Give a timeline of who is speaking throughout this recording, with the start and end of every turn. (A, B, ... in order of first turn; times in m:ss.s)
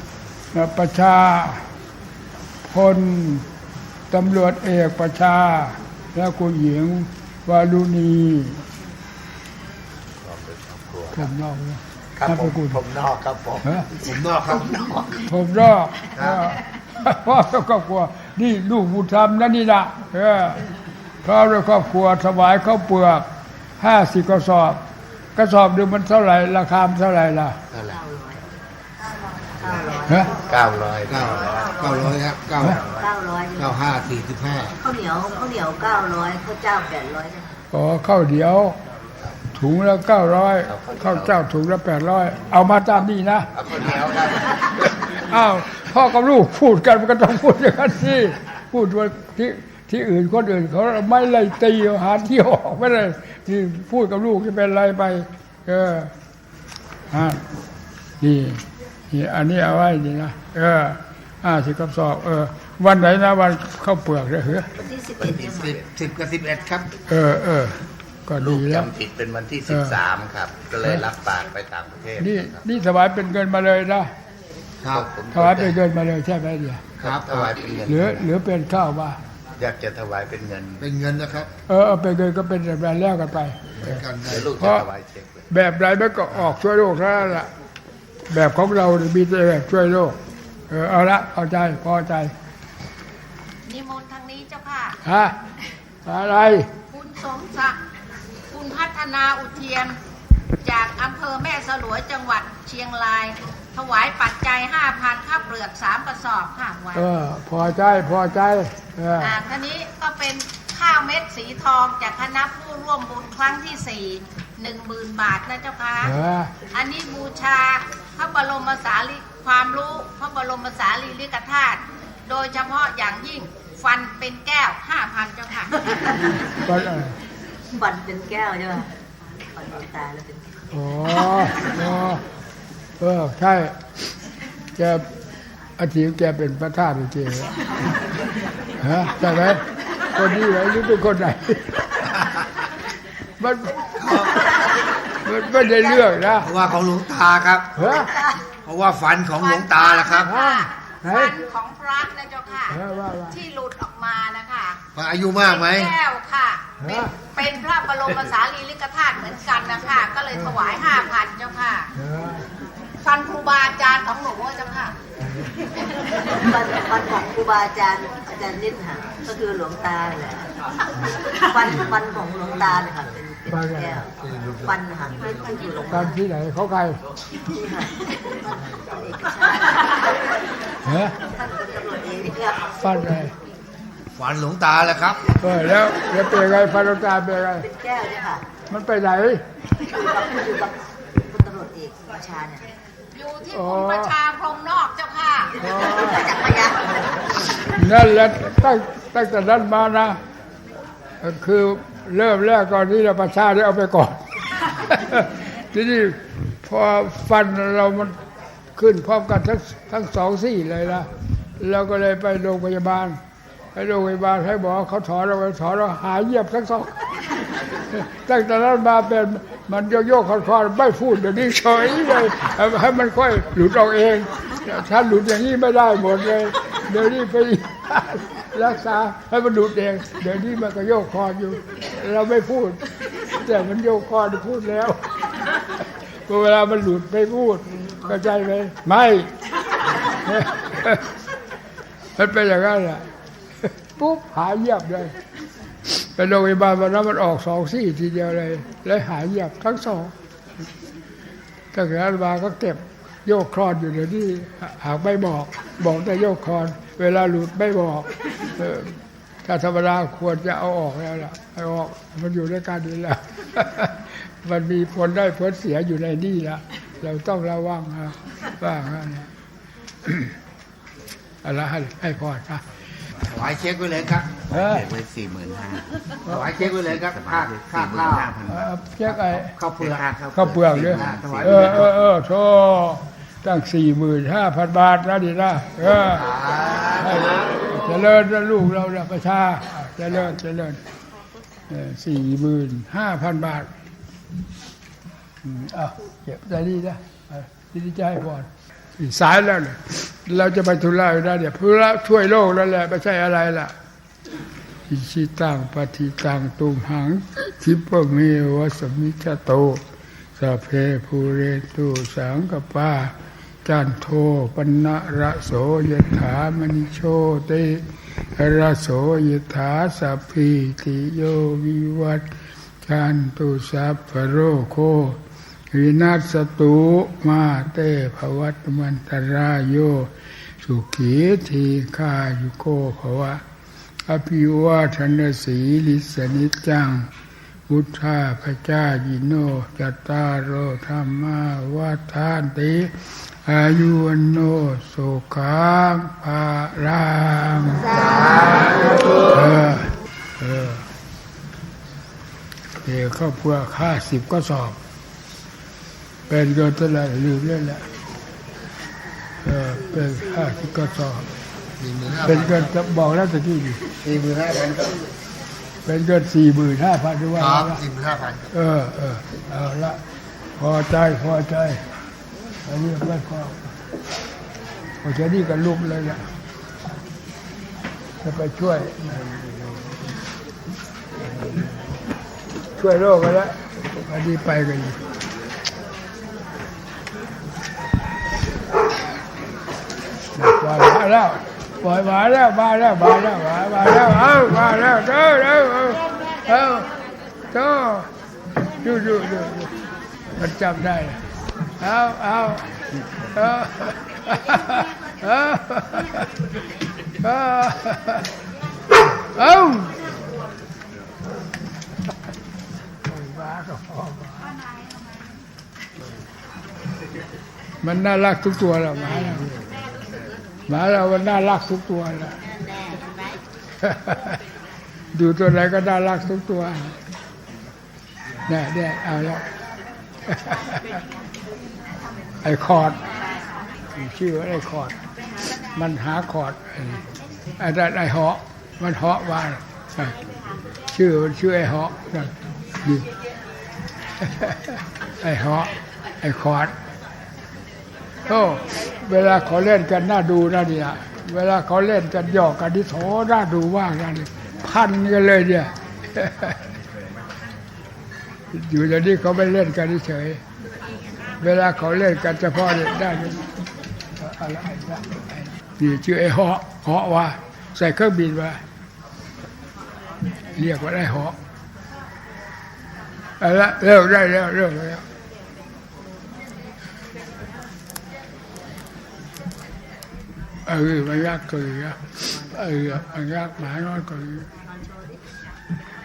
0:00.5-0:01.6 A
0:02.7-0:03.5 A
0:04.1-0:08.6 A
0:10.2-0:11.3 B
0:11.1-0:12.8 A
0:12.2-0:13.7 B
0:14.0-0:15.3 C
0:15.3-0:20.6 A
0:21.2-0:23.3 A
0:23.8-0:24.8 A
0:25.4-0:27.6 A
0:27.9-0:28.4 D
0:29.6-0:30.3 D
0:30.4-0:31.9 B
0:31.1-0:32.8 C
0:33.0-0:33.8 D
0:33.6-0:34.8 C
0:34.8-0:37.5 D
0:37.7-0:38.8 A
0:39.5-0:43.5 A
0:40.7-0:41.5 B
0:43.6-0:44.9 B
0:45.0-0:56.1 A
0:57.1-0:57.4 A
0:58.2-1:04.7 A
1:04.8-1:05.8 D
1:05.2-1:05.9 B
1:05.4-1:06.9 C
1:07.1-1:08.9 A
1:08.4-1:12.6 B
1:09.7-1:10.0 A
1:12.2-1:14.1 A
1:14.8-1:15.1 C
1:14.9-1:15.8 B
1:15.3-1:16.8 A
1:17.0-1:18.3 B
1:17.0-1:17.7 C
1:17.9-1:19.2 A
1:19.6-1:20.9 B
1:20.8-1:21.5 C
1:21.7-1:24.0 A
1:23.8-1:24.6 C
1:24.2-1:25.4 B
1:24.6-1:24.9 A
1:25.5-1:27.5 A
1:28.3-1:30.2 A
1:30.7-1:32.3 A
1:33.7-1:35.0 E
1:35.0-1:35.4 A
1:36.1-1:36.7 A
1:36.9-1:37.8 E
1:38.5-1:40.0 E
1:40.6-1:47.1 E
1:47.0-1:49.4 A
1:49.2-1:56.1 E
1:56.0-1:56.5 A
1:56.7-2:05.9 E
2:06.6-2:07.2 A
2:07.7-2:08.9 D
2:09.5-2:10.5 D
2:10.7-2:12.2 A
2:13.0-2:13.8 A
2:14.8-2:15.1 A
2:15.8-2:17.6 A
2:18.8-2:19.6 A
2:20.2-2:21.8 A
2:23.4-2:23.9 A
2:24.0-2:24.5 C
2:25.2-2:26.5 A
2:26.4-2:27.9 C
2:27.8-2:28.1 A
2:28.0-2:28.2 D
2:28.6-2:30.3 C
2:29.4-2:32.8 E
2:30.2-2:31.4 A
2:32.7-2:33.4 A
2:33.3-2:34.8 E
2:35.0-2:36.0 C
2:35.4-2:41.9 E
2:36.8-2:37.1 A
2:42.0-2:42.5 A
2:43.0-2:45.0 E
2:46.4-2:50.5 D
2:51.4-2:56.2 D
2:53.5-2:54.0 A
2:55.9-2:57.0 A
2:57.5-3:00.3 D
3:00.9-3:01.2 A
3:01.2-3:02.8 D
3:02.8-3:03.3 A
3:04.2-3:05.2 C
3:05.4-3:07.6 A
3:07.6-3:08.4 D
3:08.7-3:09.4 A
3:09.8-3:12.7 D
3:13.2-3:15.6 E
3:13.5-3:14.2 A
3:15.6-3:16.3 A
3:15.7-3:17.0 D
3:17.7-3:20.2 A
3:21.2-3:24.2 A
3:24.8-3:28.2 A
3:28.8-3:33.2 A
3:33.8-3:37.0 A
3:37.9-3:55.0 A
3:56.3-3:59.3 A
4:00.2-4:01.1 A
4:02.2-4:03.0 A
4:04.0-4:05.1 A
4:05.9-4:10.1 A
4:11.7-4:29.3 A
4:30.1-4:30.3 A
4:31.4-4:32.6 A
4:33.3-4:34.4 C
4:34.5-4:34.9 A
4:34.5-4:42.0 B
4:36.3-4:38.4 C
4:38.5-4:39.6 A
4:39.6-4:40.1 C
4:40.3-4:46.3 A
4:40.8-4:41.9 C
4:46.0-4:47.7 C
4:47.0-4:50.8 A
4:51.7-4:53.7 A
4:55.4-5:03.7 A
5:04.9-5:09.8 A
5:10.4-5:13.1 A
5:13.6-5:22.3 A
5:22.8-5:25.2 A
5:25.7-5:33.4 A
5:34.1-5:37.1 A
5:37.7-5:48.1 A
5:47.9-5:48.7 D
5:48.1-5:48.5 C
5:49.3-5:50.9 A
5:52.8-5:54.8 A
5:56.3-5:57.8 A
5:59.4-6:01.3 A
5:59.7-6:00.7 D
6:01.8-6:02.7 C
6:02.2-6:03.8 A
6:04.0-6:04.9 C
6:05.9-6:07.8 A
6:07.4-6:08.5 C
6:08.5-6:10.0 A
6:10.6-6:11.8 A
6:12.7-6:13.6 A
6:15.0-6:16.2 A
6:18.2-6:19.3 A
6:22.8-6:25.0 A
6:30.4-6:36.9 A
6:37.5-6:38.1 A
6:38.8-6:39.7 A
6:40.4-6:41.2 A
6:41.8-6:42.7 A
6:43.4-6:46.3 A
6:47.2-6:48.2 A
6:49.4-6:50.0 A
6:53.1-6:54.5 A
6:57.8-6:59.5 A
7:00.7-7:02.4 A
7:02.7-7:03.0 D
7:03.8-7:04.4 A
7:05.1-7:07.0 A
7:08.5-7:09.4 A
7:10.3-7:11.0 A
7:12.4-7:13.0 A
7:14.0-7:15.0 A
7:15.8-7:17.0 A
7:17.6-7:20.2 A
7:20.9-7:23.1 A
7:24.2-7:26.7 A
7:28.3-7:36.6 A
7:38.5-7:40.4 A
7:41.4-7:43.4 A
7:44.2-7:48.6 A
7:50.5-7:51.4 A
7:53.4-7:55.0 A
8:00.7-8:04.5 A
8:04.7-8:05.2 D